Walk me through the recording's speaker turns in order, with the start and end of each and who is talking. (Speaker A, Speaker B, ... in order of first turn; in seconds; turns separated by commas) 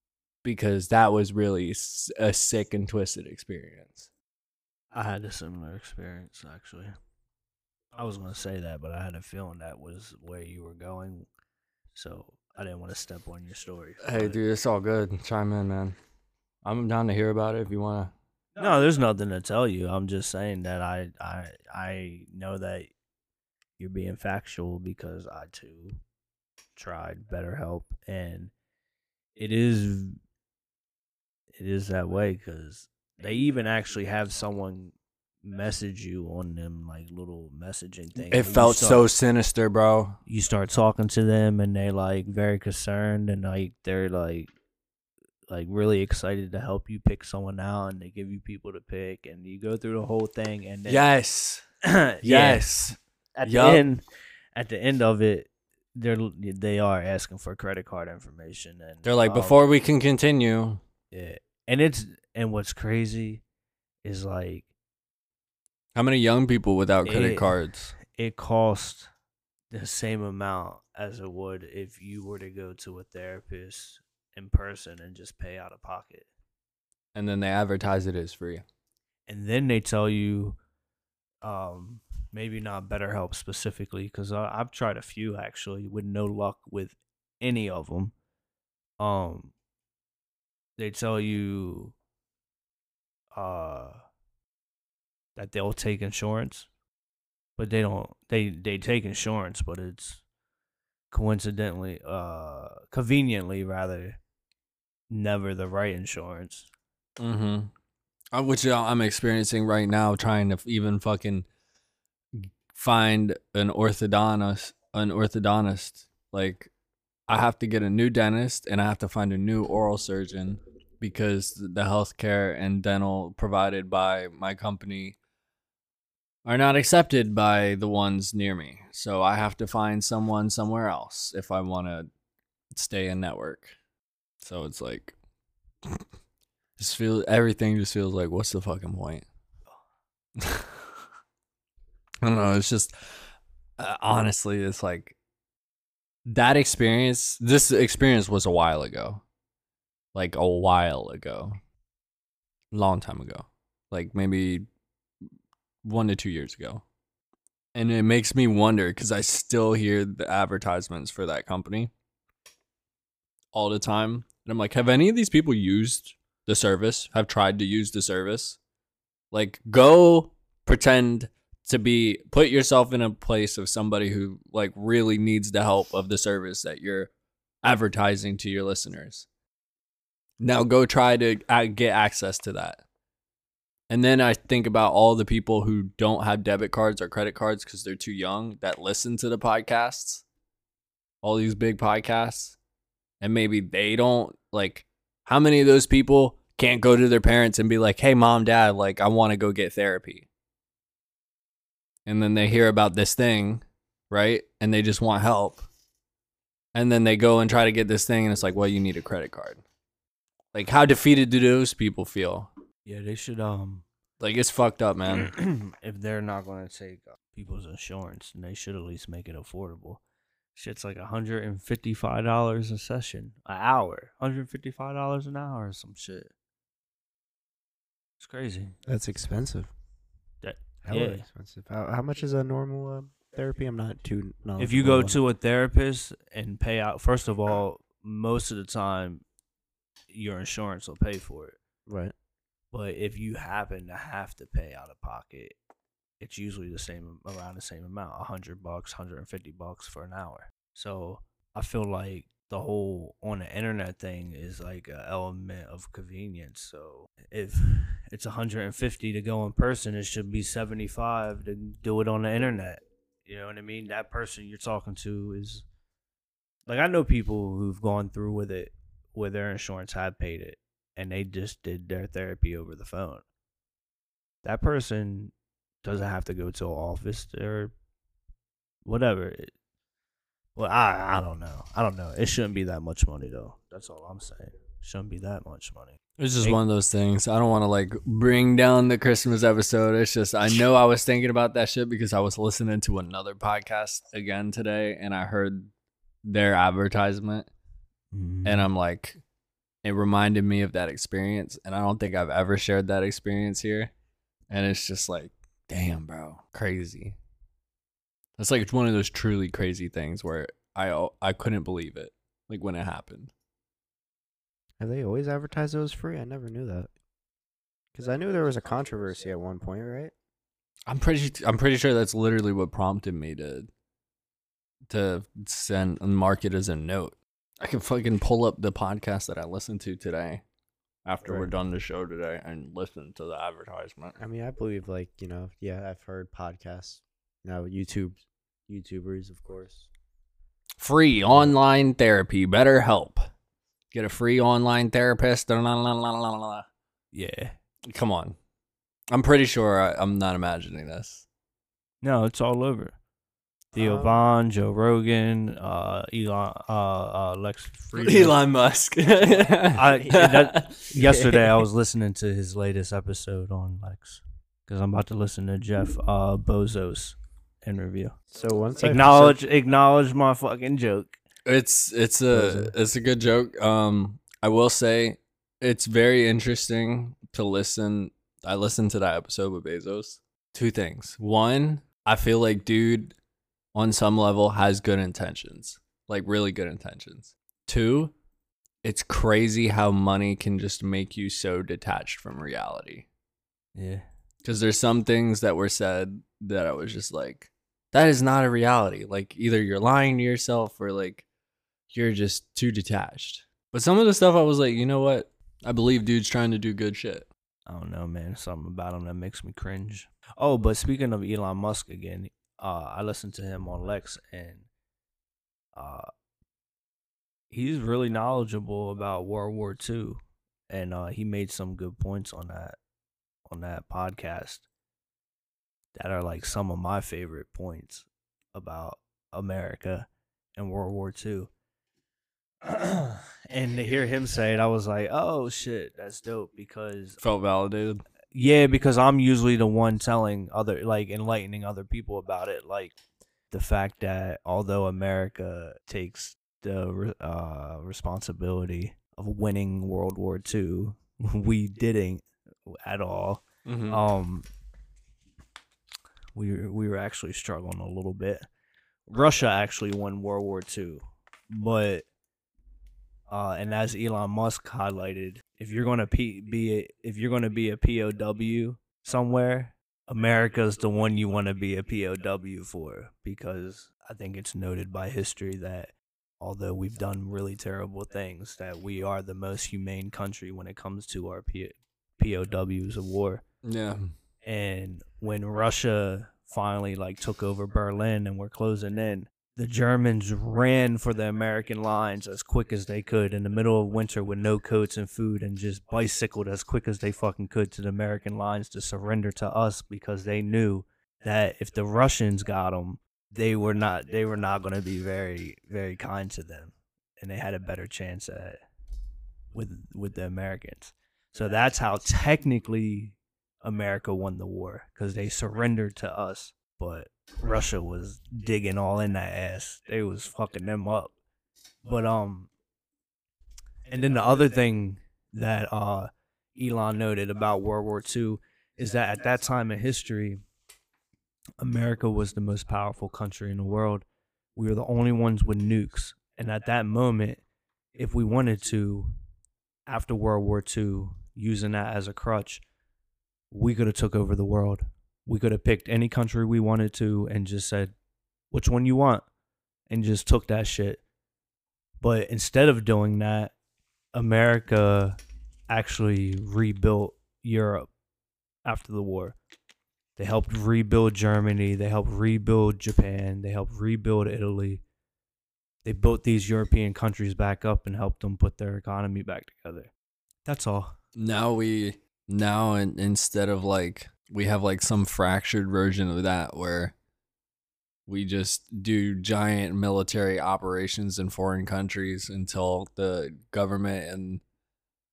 Speaker A: 0.4-4.1, Speaker B: 4.9-6.9, Speaker B: 7.9-11.3, Speaker B: 11.9-14.4, Speaker A: 14.0-16.0, Speaker A: 16.6-18.1, Speaker B: 18.6-22.9, Speaker B: 23.8-26.0, Speaker B: 26.8-28.5, Speaker B: 29.4-30.2, Speaker B: 31.6-39.0, Speaker A: 38.2-40.2, Speaker B: 40.2-44.5, Speaker B: 45.5-51.1, Speaker A: 50.9-51.6, Speaker B: 51.8-52.7, Speaker A: 52.2-53.8, Speaker B: 53.4-54.0, Speaker B: 54.5-59.6, Speaker A: 59.0-60.8, Speaker B: 61.1-63.4, Speaker B: 64.0-64.7, Speaker A: 65.9-68.0, Speaker B: 67.0-69.1, Speaker B: 69.7-76.3, Speaker A: 77.1-78.6, Speaker B: 79.3-80.6, Speaker B: 81.4-88.1, Speaker B: 89.0-89.5, Speaker B: 90.8-91.9, Speaker B: 93.3-94.0, Speaker B: 95.3-96.7, Speaker B: 97.6-100.2, Speaker B: 101.1-104.2, Speaker B: 105.1-106.7, Speaker A: 107.2-107.7, Speaker A: 108.3-111.5, Speaker A: 112.3-116.7, Speaker A: 117.3-125.2, Speaker A: 126.4-132.1, Speaker A: 132.7-133.8, Speaker A: 134.4-135.2, Speaker A: 136.8-139.2, Speaker A: 140.4-140.8, Speaker A: 142.2-142.9, Speaker A: 143.8-145.1, Speaker A: 146.2-149.2, Speaker A: 150.1-151.6, Speaker A: 152.7-154.7, Speaker A: 155.8-156.8, Speaker A: 157.7-161.9, Speaker A: 163.5-168.6, Speaker A: 169.3-177.1, Speaker A: 177.6-179.3, Speaker A: 180.4-182.8, Speaker A: 183.9-190.2, Speaker A: 191.2-192.6, Speaker A: 193.2-200.3, Speaker A: 202.1-205.7, Speaker A: 206.7-209.6, Speaker A: 210.5-212.5, Speaker B: 212.8-213.8, Speaker A: 214.2-215.3, Speaker B: 215.2-220.0, Speaker B: 220.5-226.3, Speaker B: 228.2-228.8, Speaker C: 228.8-229.7, Speaker B: 230.4-231.2, Speaker C: 230.8-235.2, Speaker B: 234.6-239.2, Speaker B: 240.1-241.6, Speaker C: 241.9-242.1, Speaker B: 242.7-245.6, Speaker B: 246.2-265.6, Speaker B: 266.7-273.2, Speaker B: 274.4-275.3, Speaker B: 275.8-277.7, Speaker B: 278.8-279.5, Speaker B: 280.6-286.6, Speaker A: 286.2-295.7, Speaker A: 296.2-297.5, Speaker B: 298.1-298.7, Speaker A: 298.4-299.2, Speaker A: 299.8-303.9, Speaker A: 304.5-307.2, Speaker A: 308.4-313.3, Speaker C: 314.8-316.9, Speaker C: 317.9-320.1, Speaker A: 320.9-323.7, Speaker A: 324.9-330.4, Speaker A: 331.0-334.2, Speaker C: 331.2-331.5, Speaker C: 334.2-339.9, Speaker A: 340.8-343.3, Speaker A: 343.9-346.7, Speaker B: 347.1-347.6, Speaker A: 347.9-348.4, Speaker A: 349.1-351.2, Speaker B: 352.0-352.9, Speaker C: 353.7-354.1, Speaker B: 353.7-358.4, Speaker A: 357.9-361.5, Speaker C: 359.4-360.3, Speaker B: 359.7-368.2, Speaker C: 368.3-369.4, Speaker B: 368.8-371.1, Speaker A: 371.4-383.1, Speaker C: 372.3-372.7, Speaker A: 383.7-388.1, Speaker A: 388.8-393.1, Speaker B: 393.7-394.1, Speaker A: 394.4-401.2, Speaker A: 401.9-407.3, Speaker B: 407.7-414.7, Speaker B: 415.7-416.1, Speaker B: 417.5-422.8, Speaker B: 423.5-424.6, Speaker B: 425.9-431.5, Speaker B: 432.6-437.2, Speaker A: 437.2-438.0, Speaker B: 438.3-442.9, Speaker B: 443.5-454.5, Speaker A: 453.6-454.0, Speaker B: 456.3-458.4, Speaker B: 459.1-462.1, Speaker B: 463.3-483.4, Speaker A: 483.6-484.1, Speaker B: 484.4-508.6, Speaker B: 509.5-521.1, Speaker B: 521.8-522.5, Speaker B: 523.9-530.4, Speaker B: 531.6-537.4, Speaker B: 538.0-539.1, Speaker B: 539.9-542.6, Speaker B: 543.5-547.9, Speaker B: 548.5-549.2, Speaker B: 549.9-551.0, Speaker B: 552.0-553.5, Speaker B: 554.1-555.2, Speaker B: 555.7-557.9, Speaker B: 558.6-559.4, Speaker B: 560.2-564.8, Speaker B: 565.8-569.9, Speaker B: 570.4-571.0, Speaker A: 571.1-576.9, Speaker A: 578.1-584.4